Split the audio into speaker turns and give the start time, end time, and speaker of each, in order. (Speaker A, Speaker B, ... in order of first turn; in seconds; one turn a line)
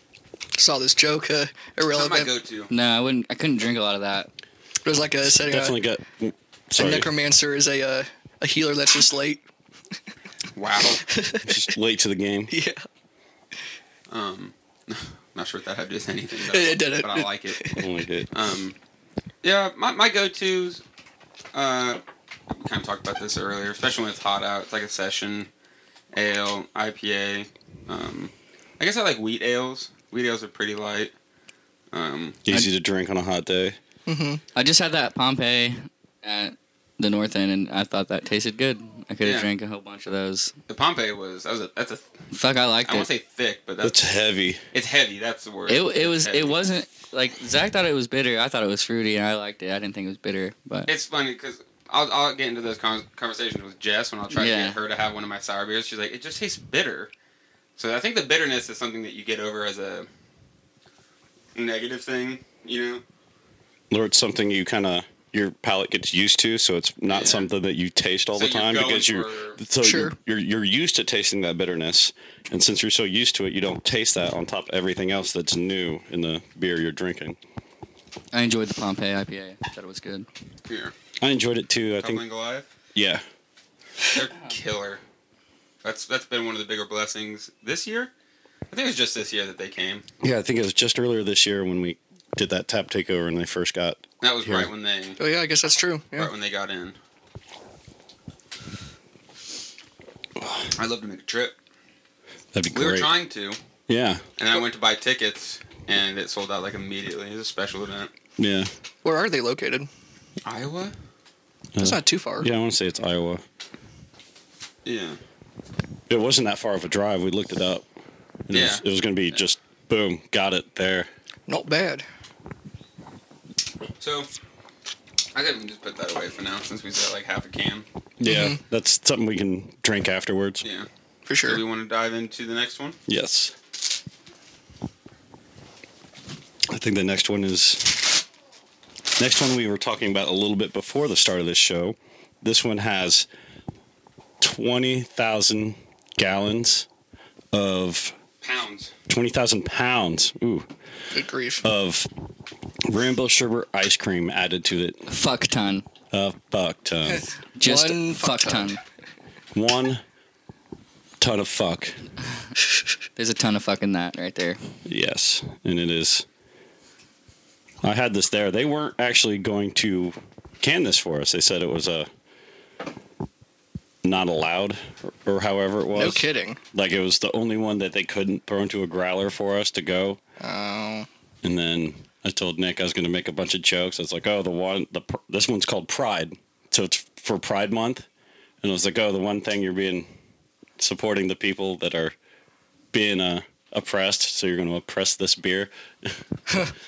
Speaker A: 0.6-2.3
Speaker B: 1.9-2.7
Speaker C: 2.7-4.3
Speaker A: 4.8-5.8
Speaker D: 5.3-7.1
Speaker A: 6.8-9.4
Speaker B: 10.6-11.1
Speaker A: 11.1-11.6
Speaker D: 11.4-12.5
Speaker A: 12.5-12.8
Speaker B: 14.1-17.8
Speaker A: 16.5-17.8
Speaker D: 17.8-18.3
Speaker B: 18.3-18.8
Speaker B: 19.4-20.8
Speaker B: 21.5-25.5
Speaker B: 26.1-31.1
Speaker B: 31.9-32.4
Speaker D: 32.5-33.8
Speaker A: 34.1-34.4
Speaker C: 34.5-40.5
Speaker B: 39.2-39.5
Speaker B: 40.7-42.1
Speaker C: 42.3-43.1
Speaker B: 42.9-44.0
Speaker D: 43.8-44.6
Speaker B: 44.7-46.6
Speaker C: 45.7-50.9
Speaker B: 50.9-57.1
Speaker C: 54.3-54.8
Speaker B: 57.8-60.1
Speaker B: 61.5-63.0
Speaker D: 63.9-77.4
Speaker B: 67.1-67.5
Speaker B: 68.3-69.6
Speaker A: 69.8-70.2
Speaker C: 78.3-80.3
Speaker B: 80.7-80.9
Speaker D: 81.2-82.2
Speaker B: 82.0-82.7
Speaker D: 83.0-83.2
Speaker B: 84.1-85.0
Speaker B: 85.8-88.1
Speaker B: 88.7-90.1
Speaker D: 90.2-94.7
Speaker B: 94.2-95.2
Speaker A: 95.2-96.3
Speaker B: 96.2-97.0
Speaker D: 100.4-100.7
Speaker B: 100.8-101.5
Speaker D: 102.5-103.1
Speaker B: 102.7-103.6
Speaker D: 103.9-104.2
Speaker B: 104.4-108.1
Speaker D: 108.4-108.7
Speaker A: 109.0-109.9
Speaker B: 110.4-111.0
Speaker D: 111.8-113.4
Speaker A: 111.8-112.5
Speaker B: 114.8-115.2
Speaker D: 116.1-117.8
Speaker D: 118.5-121.1
Speaker B: 118.5-119.4
Speaker A: 121.5-122.0
Speaker B: 124.0-124.3
Speaker B: 125.3-127.9
Speaker D: 128.2-130.6
Speaker A: 128.2-128.6
Speaker A: 131.3-131.6
Speaker B: 131.4-133.0
Speaker D: 133.1-133.6
Speaker D: 136.7-138.2
Speaker D: 139.2-143.3
Speaker D: 144.4-146.9
Speaker D: 147.5-148.2
Speaker B: 148.4-148.9
Speaker D: 149.1-150.7
Speaker A: 151.1-151.7
Speaker D: 151.6-152.1
Speaker D: 152.9-155.1
Speaker C: 155.1-155.9
Speaker D: 156.1-157.3
Speaker A: 157.1-158.8
Speaker C: 157.6-158.8
Speaker D: 159.5-160.0
Speaker D: 161.2-162.0
Speaker C: 163.2-164.6
Speaker D: 164.9-166.3
Speaker D: 167.8-172.1
Speaker D: 174.0-180.2
Speaker A: 175.9-176.6
Speaker A: 180.4-181.1
Speaker D: 181.4-188.1
Speaker D: 188.6-190.1
Speaker D: 190.8-192.2
Speaker D: 192.9-196.2